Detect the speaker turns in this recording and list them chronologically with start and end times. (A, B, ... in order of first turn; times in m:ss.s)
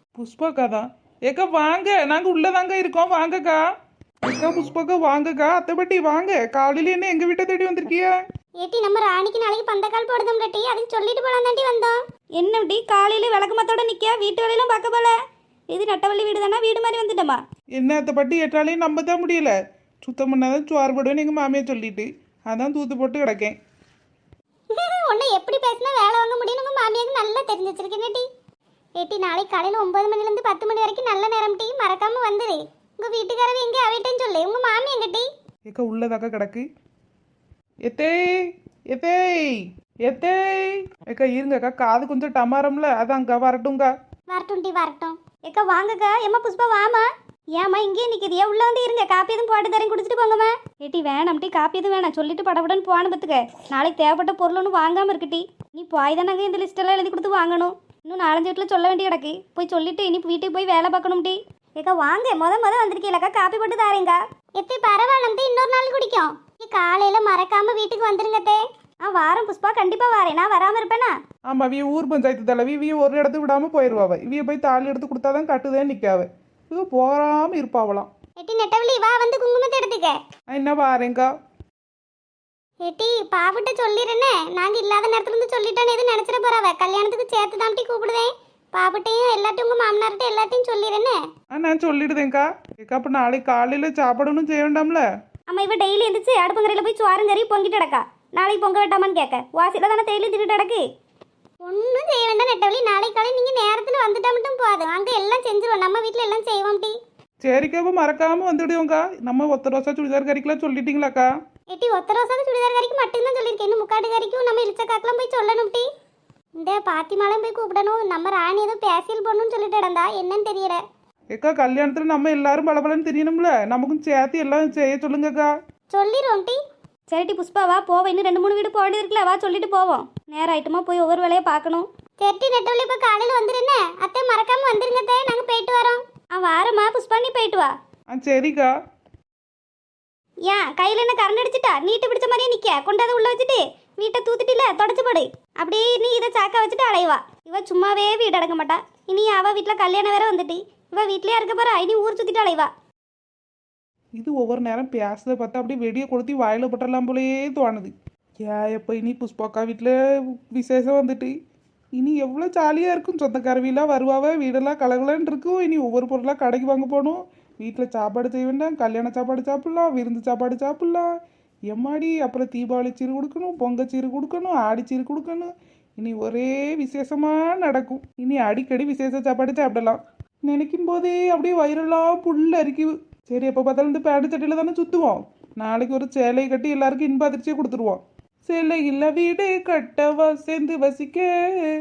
0:00.2-0:03.6 A
0:04.3-0:08.2 A
0:08.6-0:12.0 B
0:12.4-0:15.2 C
0:15.7-0:17.4 C
0:17.8-0:23.6 A
0:24.7-0:28.3 B
0:29.0-0:35.3 B
0:35.7-0:36.7 A
0:37.9-0:43.9 A
0:44.3-0:45.2 B
0:45.5-1:04.2 C
1:04.6-1:08.6 B
1:09.0-1:11.1 C
1:11.5-1:18.1 A
1:18.4-1:20.2 B
1:20.5-1:21.3 A
1:22.8-1:31.2 B
1:31.5-1:35.0 A
1:35.5-1:40.8 C
1:41.7-1:46.9 B
1:47.4-1:51.3 A
1:51.7-1:55.9 B
1:56.6-2:00.8 B
2:01.3-2:05.5 A
2:05.9-2:06.6 B
2:07.1-2:11.9 C
2:12.2-2:16.0 B
2:16.4-2:17.7 C
2:18.1-2:18.7 A
2:20.5-2:32.7 C
2:34.2-2:37.9 A
2:38.4-2:40.0 A
2:40.5-2:41.3 A
2:42.0-2:51.1 A
2:51.7-3:11.3 A